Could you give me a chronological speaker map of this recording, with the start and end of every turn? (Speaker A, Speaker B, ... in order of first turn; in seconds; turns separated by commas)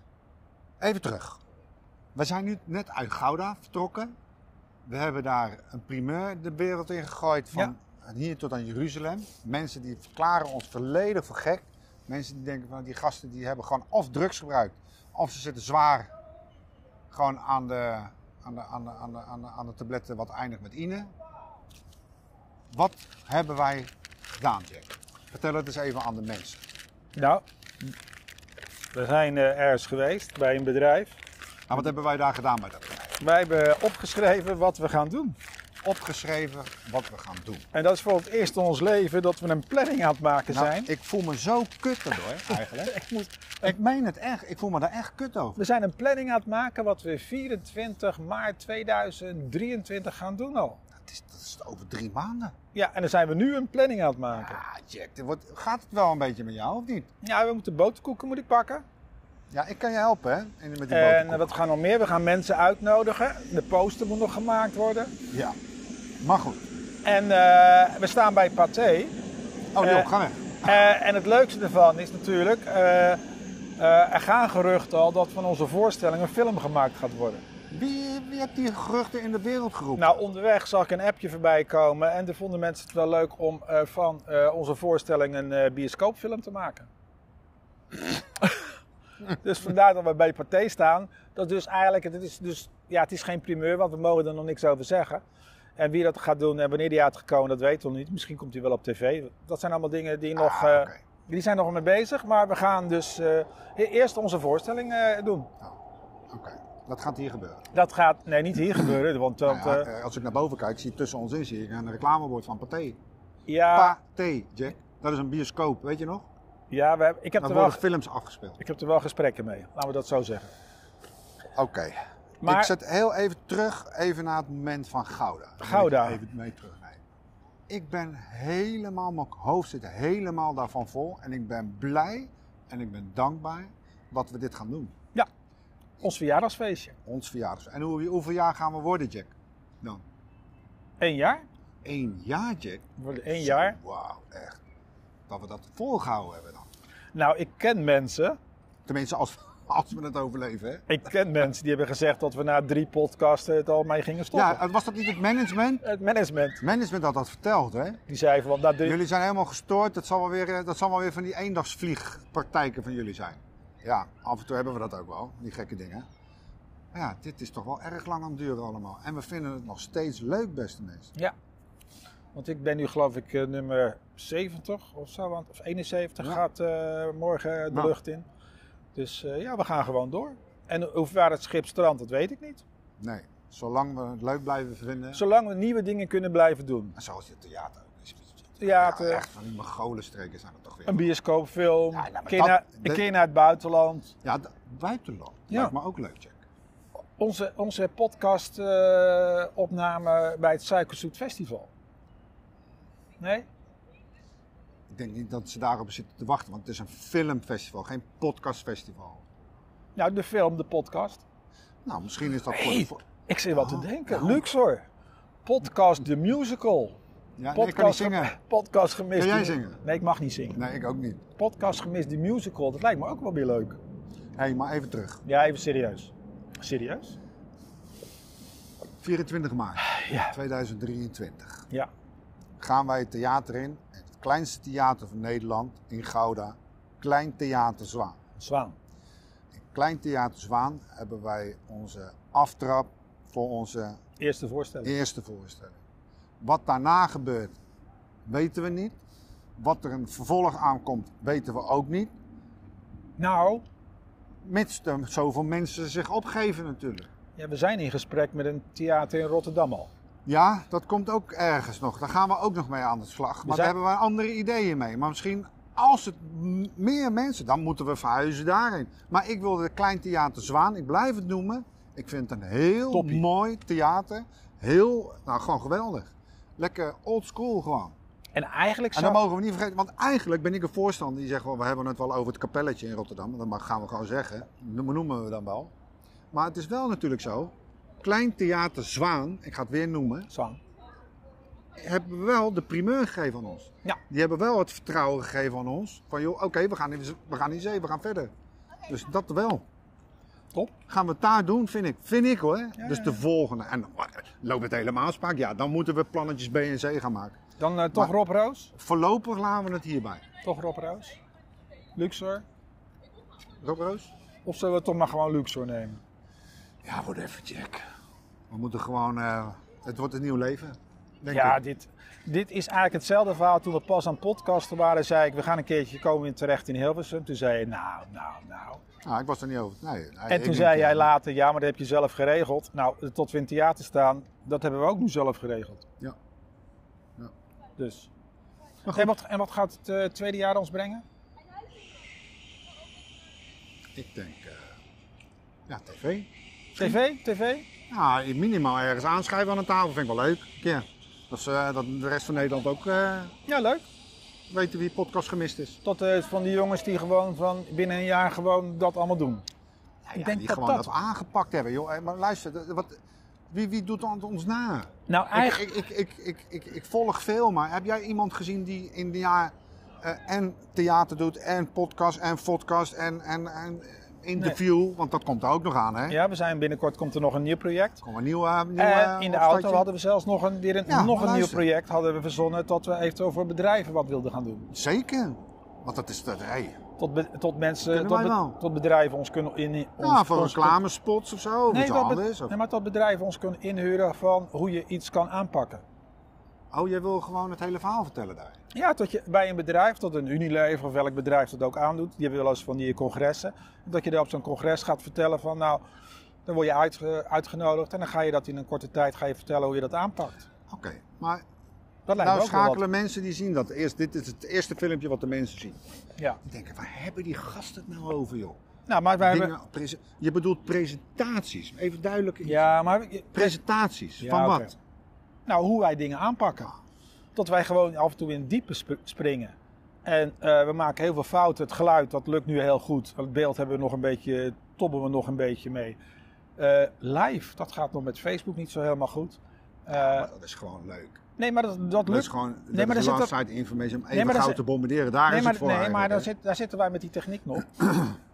Speaker A: 0.8-1.4, Speaker A: 2.1-4.1, Speaker A: 4.8-16.1, Speaker A: 17.1-21.1, Speaker A: 22.7-26.6, Speaker B: 27.1-27.4, Speaker B: 28.9-31.2, Speaker A: 31.7-33.2, Speaker B: 33.2-35.4, Speaker A: 35.8-37.6, Speaker B: 37.7-40.9, Speaker A: 40.5-43.0, Speaker B: 42.8-43.7, Speaker A: 43.6-45.6, Speaker B: 45.6-50.8, Speaker A: 51.0-52.5, Speaker B: 52.7-54.6, Speaker A: 54.3-57.1, Speaker B: 57.2-58.8, Speaker A: 59.5-61.5, Speaker B: 60.9-65.1, Speaker A: 65.3-65.5, Speaker A: 66.2-66.7, Speaker B: 67.0-69.1, Speaker A: 69.7-70.7, Speaker B: 69.8-70.1, Speaker B: 70.6-73.2, Speaker B: 73.8-77.4, Speaker A: 77.7-80.2, Speaker B: 80.0-86.9, Speaker B: 89.3-95.2, Speaker B: 95.8-105.5, Speaker A: 100.3-101.0, Speaker A: 106.3-107.7, Speaker B: 107.7-109.9, Speaker A: 109.4-113.0, Speaker B: 113.5-114.0, Speaker A: 113.7-116.3, Speaker B: 116.7-117.8, Speaker A: 117.4-118.6, Speaker B: 118.6-120.5, Speaker A: 121.5-127.0, Speaker B: 122.4-122.7, Speaker B: 125.6-126.2, Speaker A: 127.7-134.9, Speaker B: 136.0-136.9, Speaker A: 137.1-140.0, Speaker B: 141.0-141.4, Speaker A: 141.8-144.6, Speaker B: 143.0-143.8, Speaker A: 145.3-146.7, Speaker B: 147.1-148.4, Speaker A: 148.8-150.8, Speaker B: 150.9-154.6, Speaker A: 154.3-155.8, Speaker B: 155.8-156.6, Speaker A: 156.6-158.0, Speaker B: 158.1-158.9, Speaker A: 158.8-166.1, Speaker A: 166.9-171.1, Speaker B: 172.3-178.2, Speaker B: 178.9-182.6, Speaker A: 183.0-185.2, Speaker B: 185.1-186.9, Speaker A: 186.9-191.1, Speaker B: 188.6-189.2, Speaker B: 190.9-194.1, Speaker A: 191.9-193.0, Speaker A: 194.2-196.4, Speaker B: 197.2-201.7, Speaker B: 203.2-203.5, Speaker A: 204.9-209.2, Speaker B: 209.9-211.2, Speaker A: 211.8-214.4, Speaker B: 212.5-214.8, Speaker B: 215.4-217.0, Speaker A: 217.4-218.3, Speaker B: 217.5-220.6, Speaker A: 219.2-219.8, Speaker A: 220.5-221.2, Speaker B: 221.3-223.8, Speaker A: 224.4-225.2, Speaker B: 225.2-227.2, Speaker A: 229.0-231.7, Speaker B: 229.8-230.3, Speaker A: 232.6-238.2, Speaker B: 238.4-238.8, Speaker A: 239.5-244.0, Speaker B: 244.2-245.0, Speaker A: 244.8-245.8, Speaker A: 246.4-247.5, Speaker A: 248.2-249.0, Speaker A: 249.6-252.1, Speaker B: 253.2-253.6, Speaker A: 254.4-257.1, Speaker B: 257.4-259.9, Speaker A: 260.2-277.9, Speaker B: 263.4-263.7, Speaker B: 272.9-273.2, Speaker B: 278.3-279.2, Speaker A: 278.9-285.7, Speaker A: 286.3-290.3, Speaker B: 290.3-290.6, Speaker A: 291.8-298.3, Speaker A: 298.9-299.6, Speaker A: 300.9-307.4, Speaker B: 302.8-303.2, Speaker B: 307.6-308.7, Speaker A: 308.7-310.2, Speaker B: 310.4-311.2, Speaker B: 311.9-312.4, Speaker A: 313.6-314.1, Speaker B: 314.4-316.0, Speaker A: 316.8-317.8, Speaker A: 318.5-321.6, Speaker B: 321.3-328.8, Speaker A: 329.0-331.1, Speaker B: 330.3-335.9, Speaker B: 337.8-338.1, Speaker B: 338.9-341.0, Speaker A: 343.9-344.8, Speaker A: 345.7-347.0, Speaker B: 346.8-347.6, Speaker A: 347.9-353.3, Speaker B: 353.5-353.8, Speaker A: 354.5-355.8, Speaker B: 355.8-359.4, Speaker A: 360.1-363.0, Speaker B: 360.1-360.9, Speaker A: 363.5-376.2, Speaker B: 365.1-365.6, Speaker B: 376.1-378.0, Speaker A: 378.0-379.8, Speaker B: 378.8-384.7, Speaker A: 380.9-381.6, Speaker A: 384.7-386.8, Speaker B: 387.0-390.8, Speaker A: 387.9-388.6, Speaker A: 390.0-392.5, Speaker B: 391.7-395.8, Speaker A: 396.7-398.6, Speaker B: 398.7-405.8, Speaker B: 406.4-410.4, Speaker A: 410.7-411.4, Speaker B: 412.1-412.8, Speaker A: 412.1-415.8, Speaker A: 416.4-418.6, Speaker B: 418.9-419.5, Speaker A: 419.2-422.6, Speaker B: 422.4-423.6, Speaker A: 423.3-424.7, Speaker B: 424.2-424.7, Speaker B: 425.4-426.7, Speaker B: 427.3-436.0, Speaker B: 436.6-440.3, Speaker A: 439.9-441.2, Speaker B: 441.4-443.3, Speaker A: 442.0-446.3, Speaker B: 444.1-444.6, Speaker B: 445.2-447.8